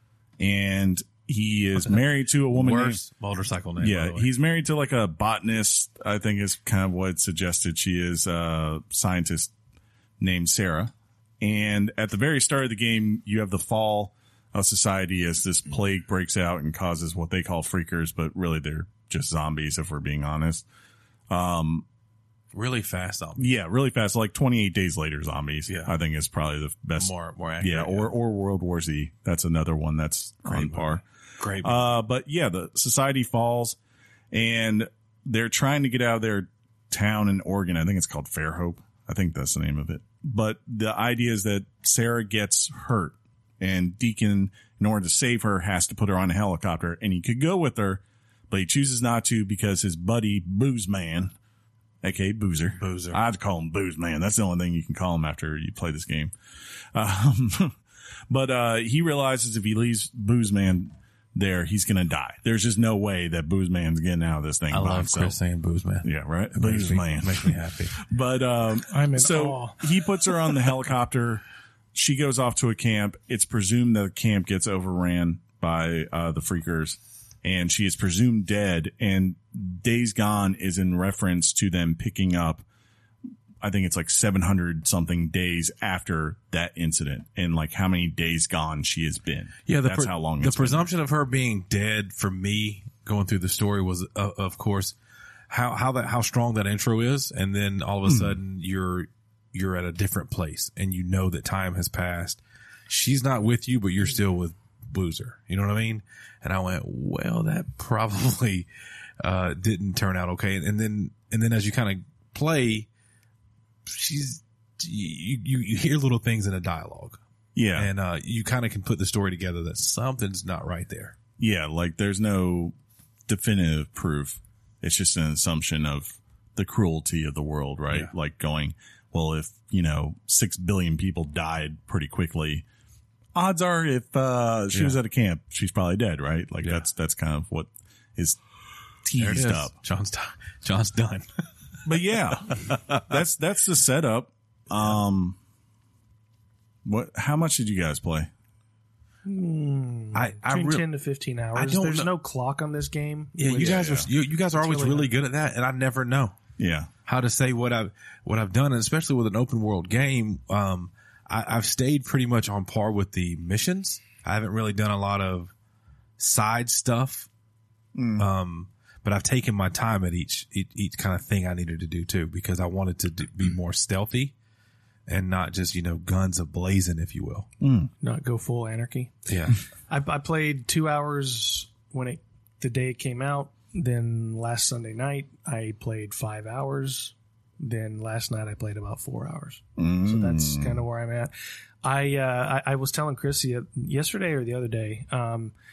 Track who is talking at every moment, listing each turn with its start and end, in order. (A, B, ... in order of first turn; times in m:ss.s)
0:00.4-0:03.0 A
0:02.5-0:04.3 B
0:03.8-0:09.5 A
0:10.2-0:20.6 A
0:21.3-0:21.8 A
0:22.5-0:23.5 B
0:23.4-0:31.0 A
0:25.7-0:25.9 B
0:27.0-0:28.1 B
0:30.4-0:31.9 B
0:31.6-0:33.8 A
0:34.3-0:51.3 A
0:52.0-0:56.3 A
0:52.8-0:53.2 B
0:56.9-0:57.8 A
0:58.3-1:05.4 A
1:04.7-1:08.0 B
1:06.0-1:11.4 A
1:08.9-1:09.9 C
1:11.9-1:22.6 A
1:23.6-1:30.9 A
1:29.7-1:34.9 B
1:35.5-1:48.7 B
1:38.1-1:38.4 A
1:49.2-1:52.9 B
1:53.8-1:57.2 B
1:57.6-1:57.9 A
1:57.7-2:01.2 B
2:01.4-2:02.7 A
2:03.3-2:12.6 A
2:13.3-2:18.4 A
2:14.7-2:15.0 B
2:19.0-2:19.7 A
2:19.2-2:21.2 B
2:21.8-2:25.4 A
2:22.5-2:23.0 B
2:26.8-2:28.3 A
2:29.2-2:35.1 C
2:30.1-2:30.8 B
2:31.5-2:32.1 B
2:33.4-2:36.4 B
2:33.6-2:34.1 A
2:36.6-2:36.9 A
2:37.0-2:45.5 B
2:46.2-2:47.3 B
2:47.9-2:48.3 A
2:48.2-2:54.3 B
2:55.1-2:57.5 B
2:57.6-2:57.9 A
2:58.0-2:59.1 C
2:59.3-2:59.6 B
2:59.9-3:11.3 C
3:09.8-3:10.8 A
3:11.8-3:15.5 C